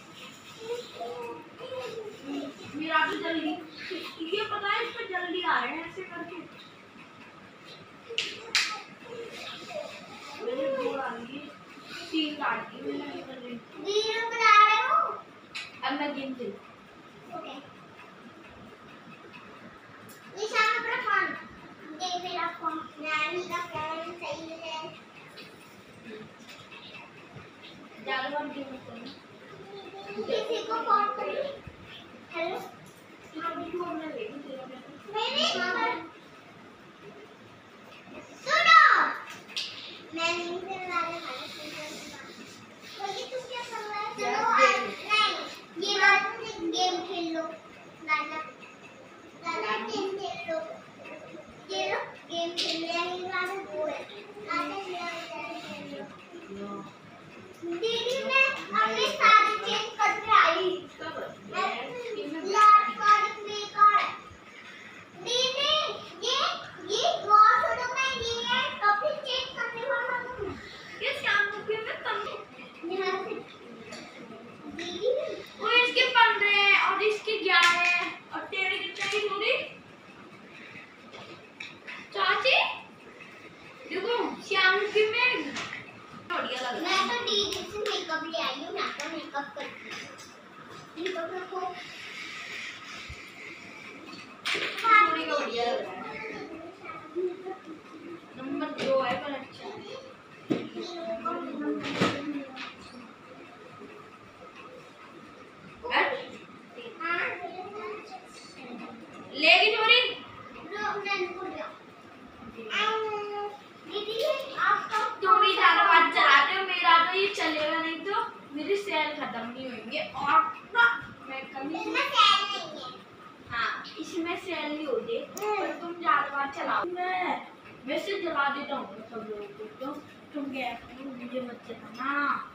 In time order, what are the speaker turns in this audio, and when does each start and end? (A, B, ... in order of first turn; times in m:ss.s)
0:00.6-0:02.6 A
0:02.2-0:06.5 B
0:08.1-0:11.0 A
0:10.4-0:11.5 B
0:12.0-0:13.7 B
0:13.8-0:15.2 A
0:15.8-0:16.6 B
0:17.2-0:17.6 A
0:20.3-0:24.9 A
0:28.0-0:29.2 B
0:29.5-0:31.6 A
0:30.1-0:31.5 B
0:32.3-0:32.6 A
0:33.3-0:36.0 B
0:33.3-0:33.7 A
0:35.1-0:36.0 A
0:38.2-0:39.2 A
0:40.1-0:42.3 A
0:42.9-0:48.5 A
0:44.2-0:45.0 B
0:45.8-0:46.1 B
0:49.4-0:50.8 A
0:49.5-0:50.1 B
0:51.6-0:56.1 A
0:55.7-0:56.9 B
0:57.6-1:00.9 A
0:57.9-0:59.8 B
1:00.8-1:03.0 B
1:01.5-1:04.1 A
1:05.1-1:10.6 A
1:11.0-1:12.4 B
1:12.8-1:13.4 A
1:13.9-1:14.5 B
1:14.6-1:16.1 A
1:15.6-1:19.7 B
1:22.1-1:22.6 B
1:23.8-1:25.6 B
1:26.3-1:27.5 B
1:26.7-1:30.1 A
1:30.9-1:31.8 A
1:34.7-1:38.6 A
1:34.8-1:36.1 B
1:38.3-1:39.8 B
1:39.6-1:42.7 A
1:40.5-1:42.2 B
1:45.9-1:46.9 B
1:47.0-1:49.1 A
1:49.3-1:50.2 B
1:50.6-1:51.7 A
1:52.4-1:52.9 B
1:52.7-1:56.4 A
1:55.2-2:02.1 B
2:01.6-2:03.0 A
2:03.5-2:12.4 B
2:05.3-2:05.8 A